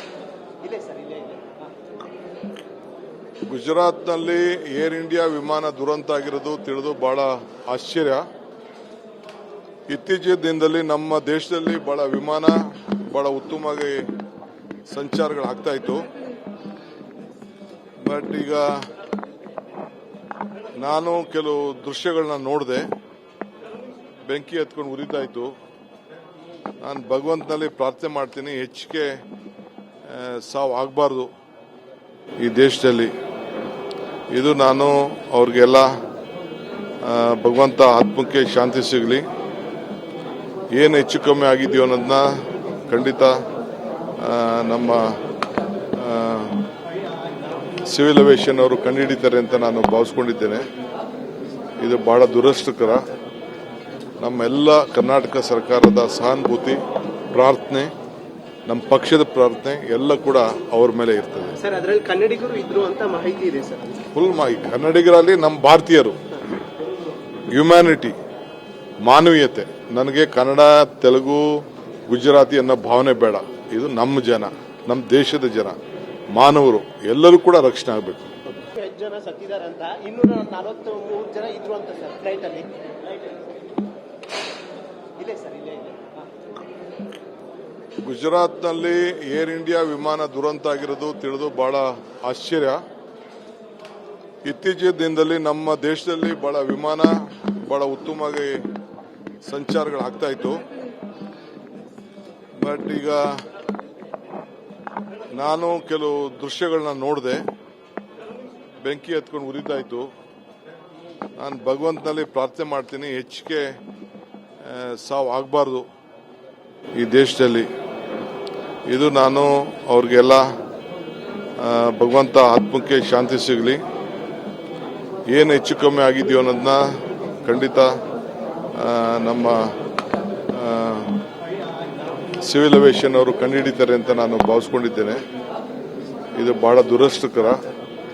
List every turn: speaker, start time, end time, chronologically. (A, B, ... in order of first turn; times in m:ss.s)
0:00.6-0:01.7 A
0:03.5-0:08.2 B
0:09.9-0:14.1 B
0:14.9-0:16.1 B
0:18.0-0:18.8 B
0:20.8-0:22.9 B
0:24.2-0:25.5 B
0:26.8-0:29.2 B
0:30.0-0:31.3 B
0:32.4-0:33.1 B
0:34.3-0:35.9 B
0:37.0-0:39.2 B
0:40.7-0:42.3 B
0:42.9-0:43.4 B
0:44.2-0:45.2 B
0:45.9-0:46.7 B
0:47.9-0:50.7 B
0:51.8-0:53.1 B
0:54.2-0:56.8 B
0:57.3-0:57.9 B
0:58.7-1:01.6 B
1:01.6-1:04.0 A
1:04.2-1:06.2 B
1:07.5-1:08.2 B
1:09.0-1:15.8 B
1:16.3-1:18.3 B
1:18.6-1:23.4 A
1:25.2-1:26.3 A
1:28.0-1:32.8 B
1:34.5-1:38.6 B
1:39.4-1:40.6 B
1:42.6-1:43.4 B
1:45.4-1:47.4 B
1:48.8-1:50.1 B
1:51.4-1:53.8 B
1:54.6-1:55.9 B
1:57.0-1:57.7 B
1:58.9-2:00.5 B
2:01.6-2:03.8 B
2:05.3-2:06.9 B
2:07.4-2:07.9 B
2:08.7-2:09.7 B
2:10.5-2:11.2 B
2:12.4-2:15.2 B
2:16.4-2:17.6 B